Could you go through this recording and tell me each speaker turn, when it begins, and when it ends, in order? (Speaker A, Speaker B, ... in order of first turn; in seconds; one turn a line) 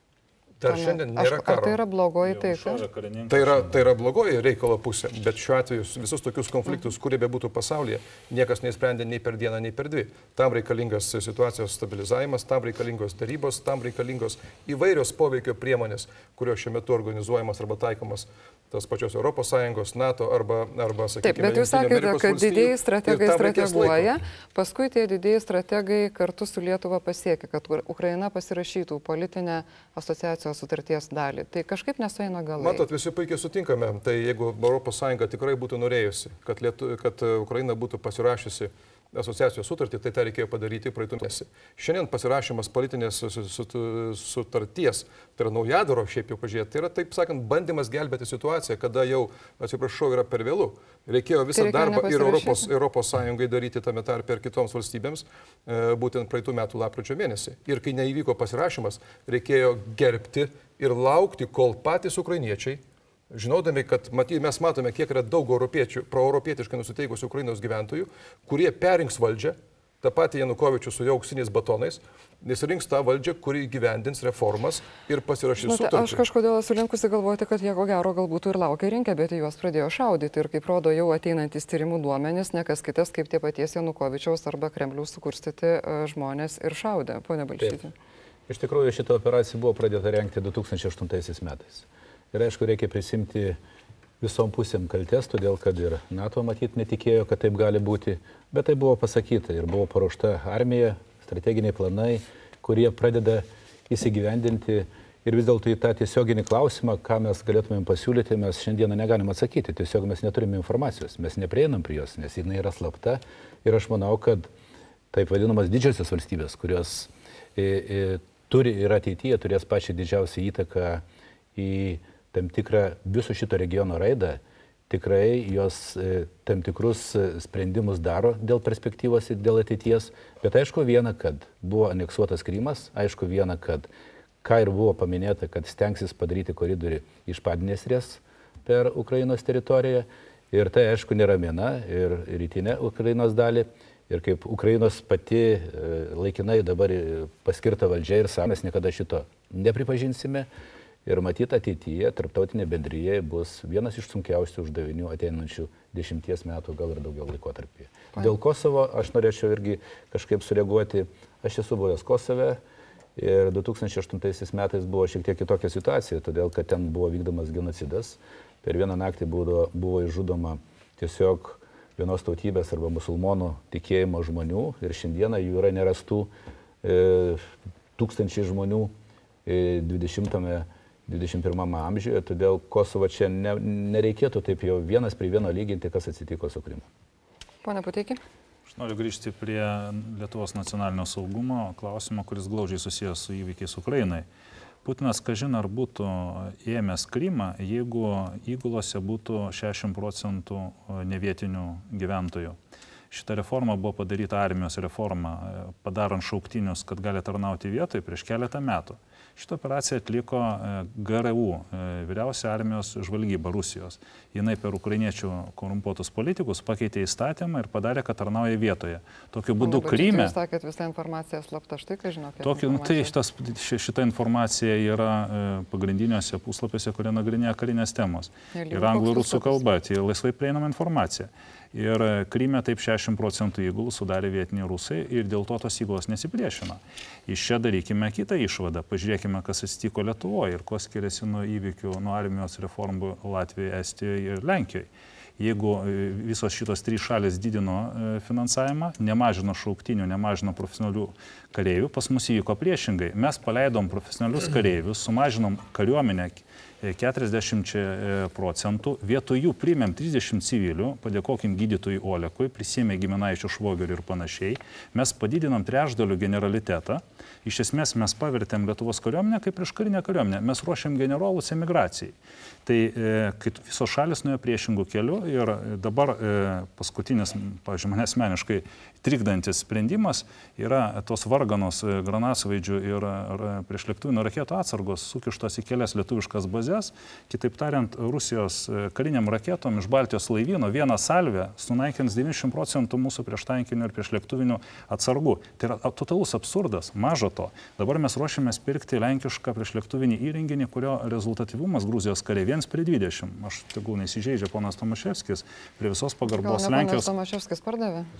Speaker A: 0.6-1.8
Speaker B: 0.6-2.8
Speaker C: 2.2-3.8
Speaker A: 3.3-24.1
Speaker B: 21.2-32.9
Speaker A: 32.6-76.2
Speaker B: 51.5-52.7
Speaker B: 75.6-87.9
Speaker D: 88.5-93.6
Speaker D: 94.2-114.5
Speaker D: 115.1-121.0
Speaker D: 121.6-133.9
Speaker D: 134.4-150.5
Speaker D: 151.1-162.6
Speaker D: 163.2-176.3
Speaker D: 176.8-177.4
Speaker D: 178.0-178.9
Speaker D: 179.5-186.9
Speaker B: 187.6-188.2
Speaker C: 188.7-194.2
Speaker C: 194.8-202.6
Speaker C: 203.1-220.3
Speaker B: 219.6-223.1
Speaker C: 222.4-272.1
Speaker B: 228.5-229.6
Speaker C: 272.6-307.1
Speaker B: 306.3-308.1